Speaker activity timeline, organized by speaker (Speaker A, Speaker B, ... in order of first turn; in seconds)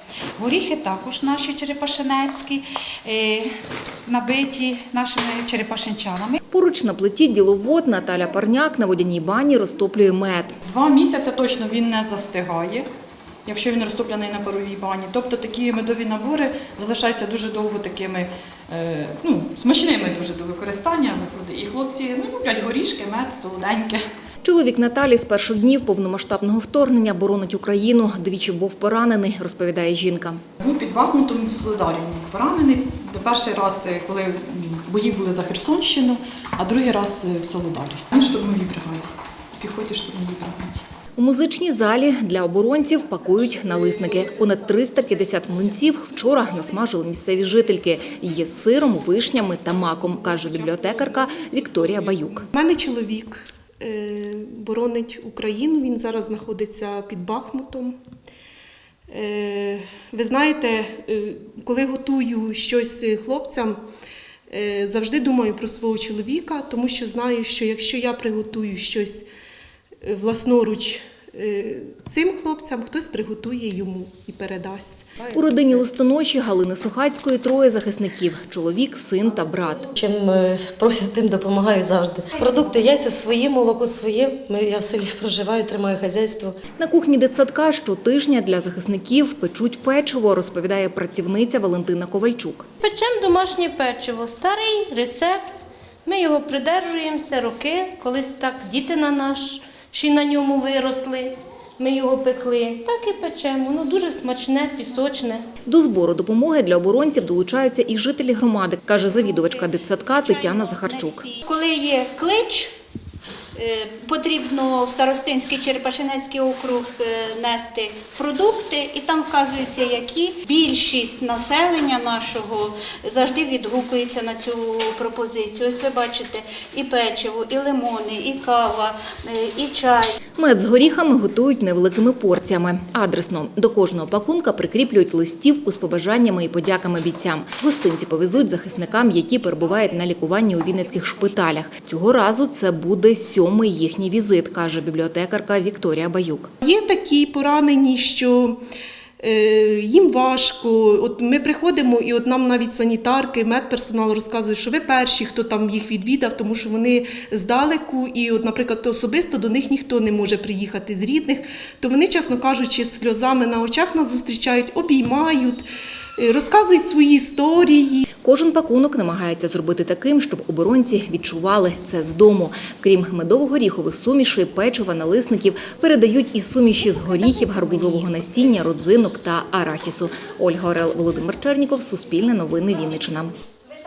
Speaker A: 0.4-3.5, 4.0-6.4
Speaker B: 6.5-10.6, 24.4-30.4, 41.1-52.5, 75.3-79.9, 86.8-92.7, 105.7-111.2, 130.4-146.5, 168.2-183.3
Speaker C: 10.6-12.9, 13.4-24.0, 30.6-40.8
Speaker D: 52.5-58.0, 59.1-63.8, 64.5-69.3, 70.0-75.5, 146.6-148.6, 149.2-165.6, 166.2-168.0
Speaker E: 79.9-86.6
Speaker F: 92.8-105.5
Speaker G: 109.0-112.7, 113.5-130.2